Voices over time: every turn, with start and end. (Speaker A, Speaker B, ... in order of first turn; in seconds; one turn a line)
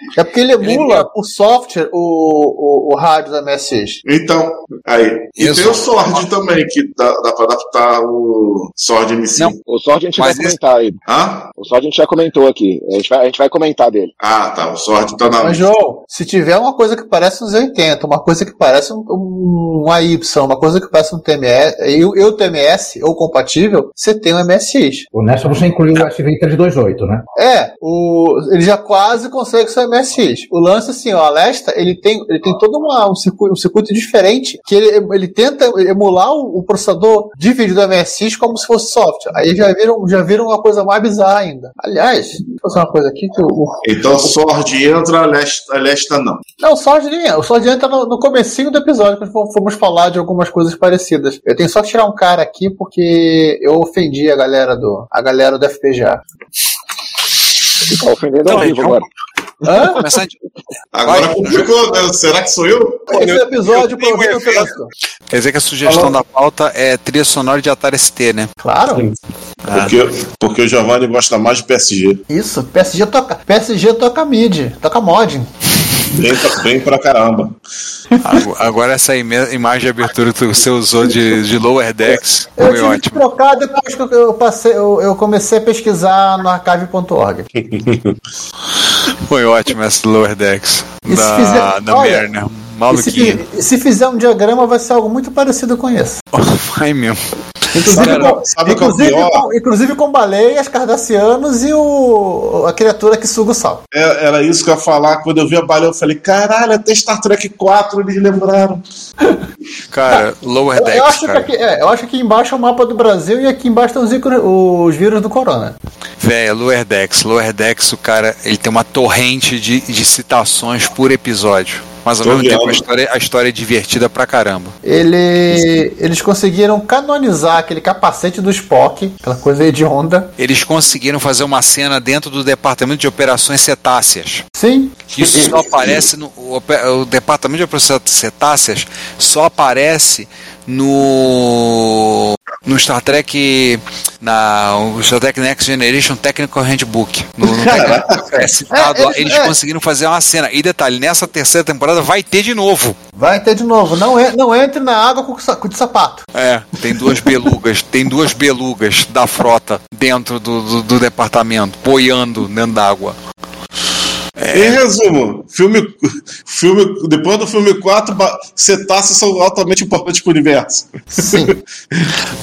Speaker A: 0.2-4.0
Speaker B: 0.6-1.1
Speaker C: 4.0-9.6
Speaker B: 5.4-6.2
Speaker D: 9.7-14.2
Speaker B: 10.2-10.6
Speaker C: 11.1-11.5
Speaker C: 14.2-15.7
Speaker A: 15.4-25.1
Speaker E: 25.2-27.2
Speaker A: 27.4-43.8
Speaker C: 43.8-46.4
Speaker A: 46.6-56.2
Speaker D: 57.9-59.1
Speaker B: 58.5-59.1
Speaker A: 59.6-60.0
Speaker B: 60.0-60.3
Speaker C: 60.9-63.2
Speaker B: 61.0-61.7
Speaker A: 63.1-64.9
Speaker B: 63.1-64.7
Speaker B: 65.3-68.5
Speaker C: 65.8-66.2
Speaker A: 68.6-69.1
Speaker B: 69.7-70.0
Speaker C: 69.7-72.2
Speaker A: 72.3-75.5
Speaker C: 76.1-77.6
Speaker B: 78.2-83.2
Speaker A: 82.6-87.5
Speaker C: 87.6-88.2
Speaker B: 89.3-93.4
Speaker A: 91.1-92.3
Speaker A: 92.9-96.2
Speaker B: 96.3-97.2
Speaker A: 97.8-103.8
Speaker B: 97.8-98.3
Speaker C: 97.8-99.5
Speaker C: 103.9-108.8
Speaker B: 109.9-111.5
Speaker A: 110.7-115.8
Speaker B: 116.2-124.7
Speaker C: 122.2-122.8
Speaker A: 124.8-130.3
Speaker B: 130.4-134.4
Speaker A: 134.6-135.5
Speaker B: 135.1-153.0
Speaker C: 135.2-136.1
Speaker A: 147.4-147.9
Speaker C: 147.7-148.4
Speaker A: 148.7-149.6
Speaker A: 153.2-156.2
Speaker B: 156.3-163.2
Speaker B: 164.4-164.8
Speaker C: 164.5-172.1
Speaker A: 171.2-171.5